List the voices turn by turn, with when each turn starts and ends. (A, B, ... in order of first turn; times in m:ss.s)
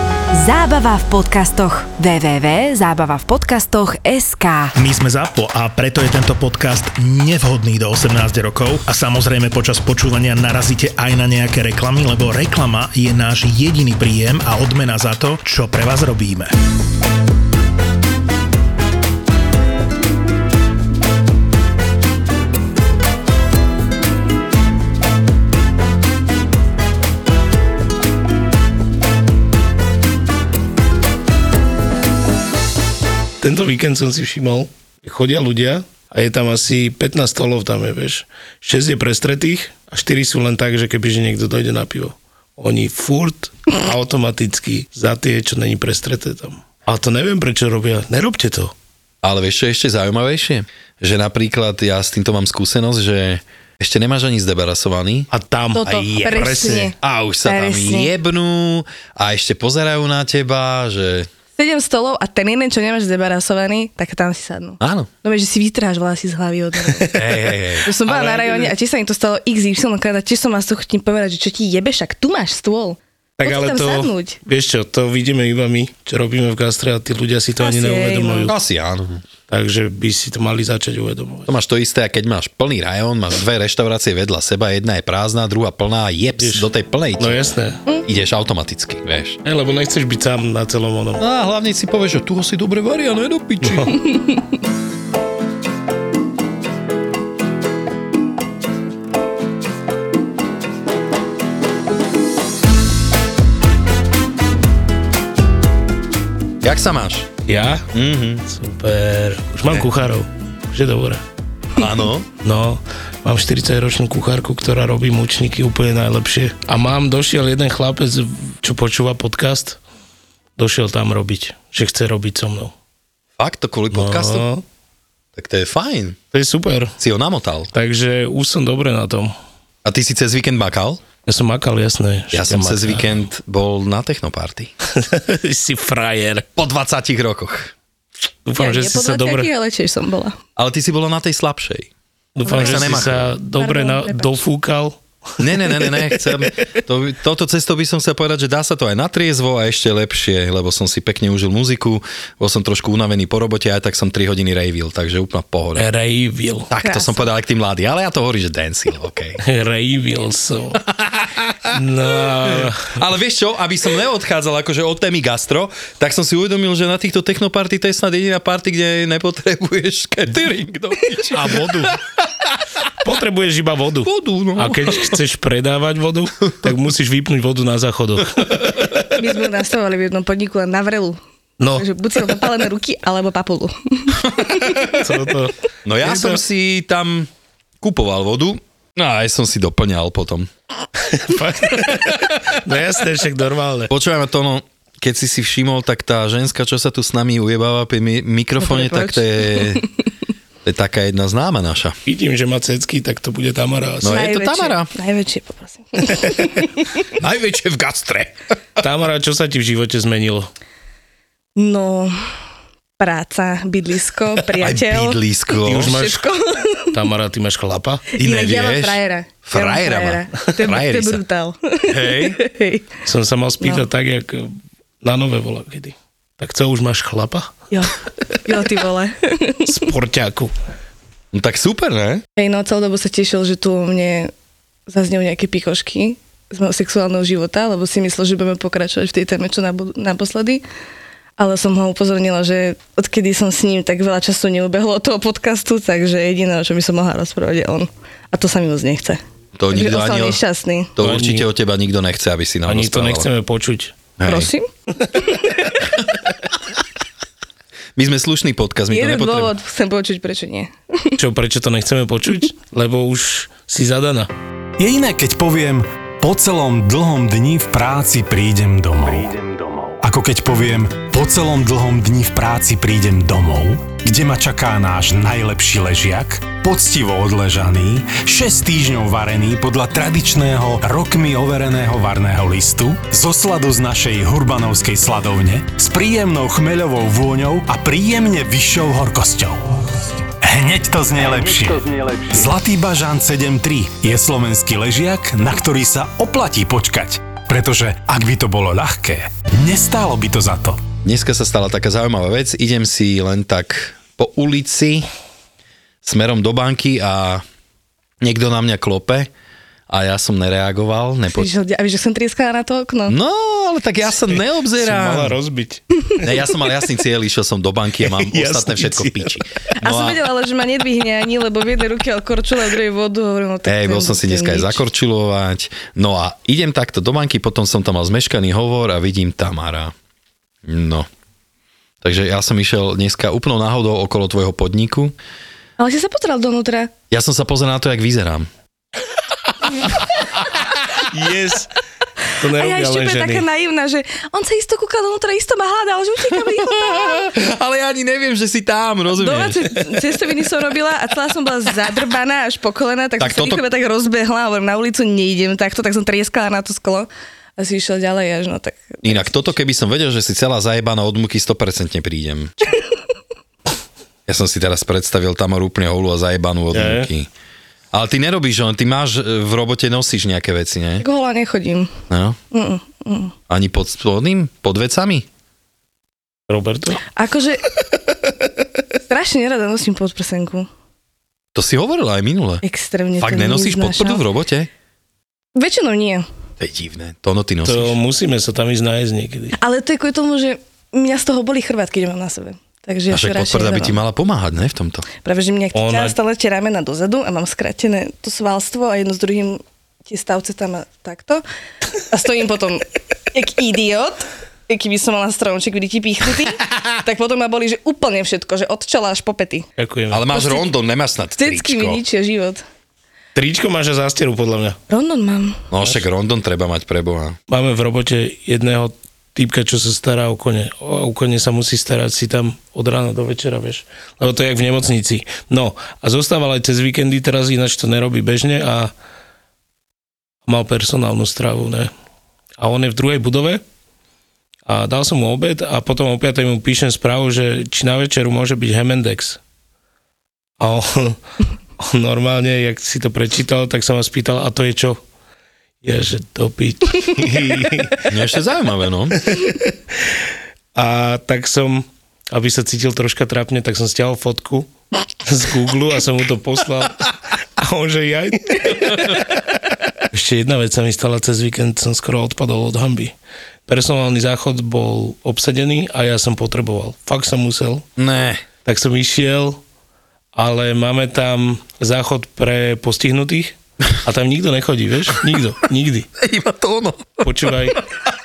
0:00.3-0:04.7 A
0:04.8-0:16.5 B
0:33.4-0:48.7 C
0:49.2-1:01.3 D
0:55.3-0:56.9 C
0:55.7-0:58.1 E
1:01.6-1:07.2 E
1:04.8-1:05.1 D
1:07.1-1:07.9 D
1:07.8-1:14.4 E
1:08.0-1:08.7 C
1:13.4-1:18.5 C
1:17.6-1:18.5 E
1:18.4-1:19.2 D
1:19.5-1:21.5 C
1:21.5-1:27.4 D
1:26.4-1:26.7 C
1:27.2-1:27.8 C
1:28.0-1:29.4 D
1:29.4-1:31.2 C
1:31.2-1:34.0 D
1:33.6-1:33.9 C
1:46.6-1:47.3 D
1:47.5-1:47.9 C
1:47.9-1:48.4 D
1:48.5-1:51.2 C
1:51.8-1:52.3 D
1:52.4-1:59.8 C
2:00.6-2:02.7 C
2:03.4-2:04.4 D
2:03.9-2:04.6 C
2:05.4-2:06.2 D
2:06.3-2:07.0 C
2:07.0-2:07.7 D
2:07.7-2:09.3 C
2:09.8-2:11.0 D
2:11.2-2:13.1 C
2:12.3-2:14.7 D
2:14.9-2:16.5 C
2:16.6-2:17.7 D
2:18.4-2:19.5 C
2:18.6-2:20.4 E
2:20.6-2:21.9 D
2:22.4-2:26.6 C
2:22.4-2:24.3 E
2:22.5-2:23.3 D
2:25.4-2:35.8 D
2:35.8-2:36.7 C
2:36.7-2:39.4 D
2:36.7-2:37.2 E
2:39.4-2:40.8 C
2:40.8-2:41.7 D
2:41.7-2:43.0 C
2:42.4-2:52.6 D
2:51.3-2:52.0 C
2:53.0-2:58.9 C
2:54.0-2:55.2 D
2:59.1-3:01.2 E
3:01.6-3:01.8 C
3:01.7-3:04.9 E
3:04.2-3:04.9 D
3:04.9-3:06.4 C
3:05.8-3:07.3 D
3:07.8-3:10.5 D
3:11.0-3:13.9 C
3:13.9-3:19.9 D
3:18.6-3:19.8 E
3:20.6-3:22.0 D
3:22.0-3:24.2 C
3:24.0-3:24.9 D
3:24.0-3:26.9 E
3:27.2-3:28.3 D
3:28.8-3:30.5 C
3:31.6-3:32.2 E
3:33.0-3:36.9 E
3:34.6-3:35.9 D
3:35.6-3:36.2 C
3:36.9-3:38.1 C
3:38.2-3:42.9 E
3:38.2-3:41.2 D
3:41.8-3:42.4 D
3:43.0-3:47.5 C
3:43.6-3:43.8 E
3:47.7-3:49.9 E
3:49.7-3:50.5 C
3:51.3-3:52.2 D
3:52.4-3:54.3 E
3:54.9-4:00.6 E
4:01.4-4:09.2 E
4:09.6-4:10.4 D
4:09.7-4:10.9 E
4:11.0-4:13.3 D
4:11.0-4:11.5 C
4:12.6-4:14.0 C
4:14.2-4:14.5 D
4:14.2-4:15.8 E
4:18.0-4:19.5 D
4:18.9-4:21.2 E
4:21.2-4:24.3 C
4:24.8-4:49.8 F
4:50.4-5:00.8 F
5:01.0-5:05.1 D
5:06.0-5:07.4 D
5:08.2-5:09.3 D
5:09.9-5:11.5 D
5:11.3-5:13.2 E
5:13.1-5:15.4 D
5:14.8-5:15.8 C
5:16.2-5:20.2 D
5:18.0-5:19.4 C
5:19.8-5:24.8 E
5:23.6-5:29.9 D
5:30.6-5:31.1 D
5:32.0-5:35.1 D
5:35.8-5:36.9 E
5:37.1-5:38.5 D
5:41.1-5:41.7 C
5:42.4-5:43.4 C
5:42.5-5:47.3 E
5:46.4-5:50.0 D
5:49.2-5:59.5 E
5:53.2-5:53.6 D
5:59.0-6:02.5 D
6:04.3-6:07.3 D
6:06.7-6:07.1 C
6:07.9-6:11.0 D
6:11.0-6:11.9 E
6:12.1-6:12.4 D
6:12.5-6:13.3 E
6:13.5-6:15.2 D
6:16.5-6:17.0 C
6:17.1-6:17.6 E
6:19.0-6:20.7 E
6:21.5-6:22.6 D
6:22.6-6:24.2 E
6:23.2-6:24.7 D
6:25.5-6:26.2 E
6:26.6-6:28.0 D
6:27.6-6:29.6 C
6:29.5-6:34.0 E
6:33.1-6:35.0 D
6:35.2-6:41.4 E
6:35.7-6:36.2 C
6:42.1-6:49.7 E
6:49.8-6:50.4 C
6:50.1-6:52.0 D
6:51.4-6:52.6 E
6:53.3-6:54.8 C
6:54.9-6:55.6 E
6:55.7-6:57.4 D
6:57.5-7:08.9 C
7:10.4-7:11.9 C
7:12.6-7:13.6 C
7:14.7-7:19.4 C
7:20.6-7:21.2 C
7:21.8-7:25.0 C
7:25.8-7:28.0 C
7:28.0-7:29.2 D
7:29.2-7:29.7 C
7:30.7-7:34.7 C
7:35.2-7:39.4 C
7:40.1-7:43.1 C
7:43.7-7:47.8 C
7:48.0-7:48.4 D
7:48.6-7:49.6 C
7:50.3-7:56.1 C
7:56.2-7:57.8 D
7:57.2-7:57.8 C